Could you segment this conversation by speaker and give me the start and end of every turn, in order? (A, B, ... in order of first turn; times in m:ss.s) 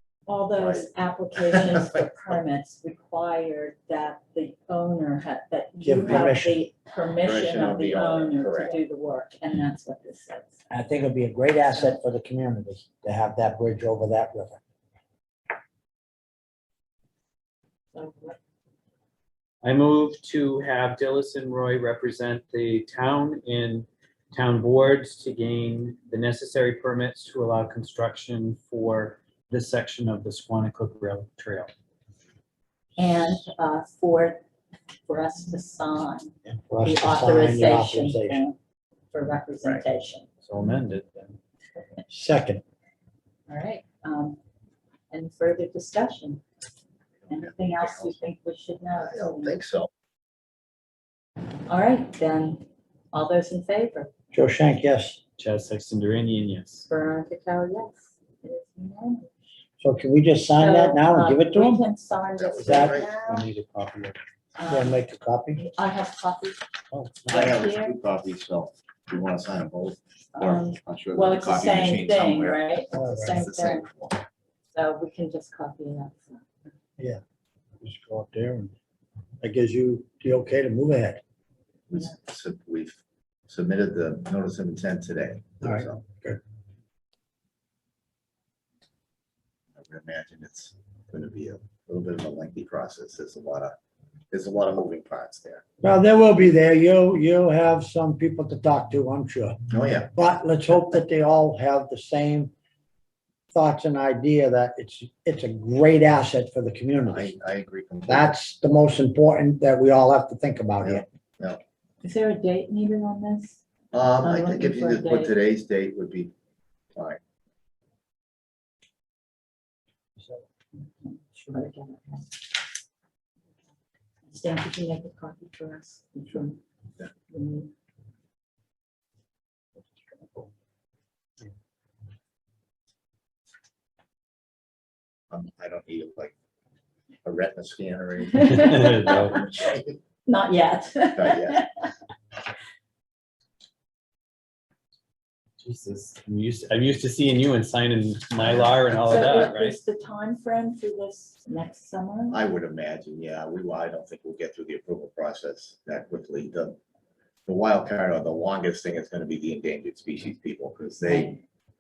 0:00.3-0:10.6 A
0:00.5-0:02.4 B
0:05.8-0:06.6 C
0:07.2-0:08.8 B
0:10.7-0:14.6 C
0:17.9-0:18.4 A
0:19.6-0:31.7 D
0:33.0-0:34.4 A
0:35.0-0:38.6 A
0:36.6-0:38.4 C
0:39.1-0:40.2 A
0:40.4-0:41.4 D
0:42.1-0:42.6 C
0:43.5-0:44.4 A
0:45.1-0:46.4 A
0:47.2-0:48.2 B
0:47.3-0:49.6 A
0:48.9-0:49.9 B
0:51.7-0:54.1 A
0:54.3-0:55.2 C
0:55.4-0:56.8 D
0:56.9-0:59.3 A
0:59.8-1:01.8 C
1:00.5-1:03.5 A
1:02.4-1:03.1 B
1:02.6-1:03.1 C
1:03.2-1:04.2 D
1:04.6-1:05.0 A
1:04.7-1:05.6 C
1:05.5-1:06.6 A
1:06.9-1:07.5 C
1:07.3-1:07.9 A
1:07.3-1:12.7 B
1:10.3-1:13.9 A
1:12.9-1:13.4 C
1:13.3-1:14.2 B
1:14.7-1:16.7 A
1:17.8-1:18.7 C
1:19.4-1:21.2 C
1:21.9-1:26.0 B
1:25.6-1:26.4 C
1:29.8-1:33.7 B
1:34.3-1:35.6 B
1:35.8-1:39.6 C
1:39.7-1:40.1 B
1:40.1-1:42.5 C
1:43.5-1:47.3 C
1:47.1-1:48.3 B
1:48.1-1:51.1 C
1:50.8-1:51.6 B
1:52.0-1:53.6 A
1:53.9-1:56.3 B
1:54.2-1:55.3 A
1:56.9-1:57.2 B
2:00.8-2:02.4 A
2:04.3-2:06.6 A
2:07.3-2:07.7 A
2:15.3-2:16.3 B
2:17.2-2:18.6 B
2:18.3-2:21.9 A
2:18.4-2:19.4 D
2:19.4-2:19.9 B
2:21.1-2:21.6 B
2:25.6-2:29.8 D
2:28.4-2:28.8 B
2:29.0-2:32.4 A
2:32.3-2:36.8 B
2:37.4-2:41.4 B
2:41.0-2:41.4 A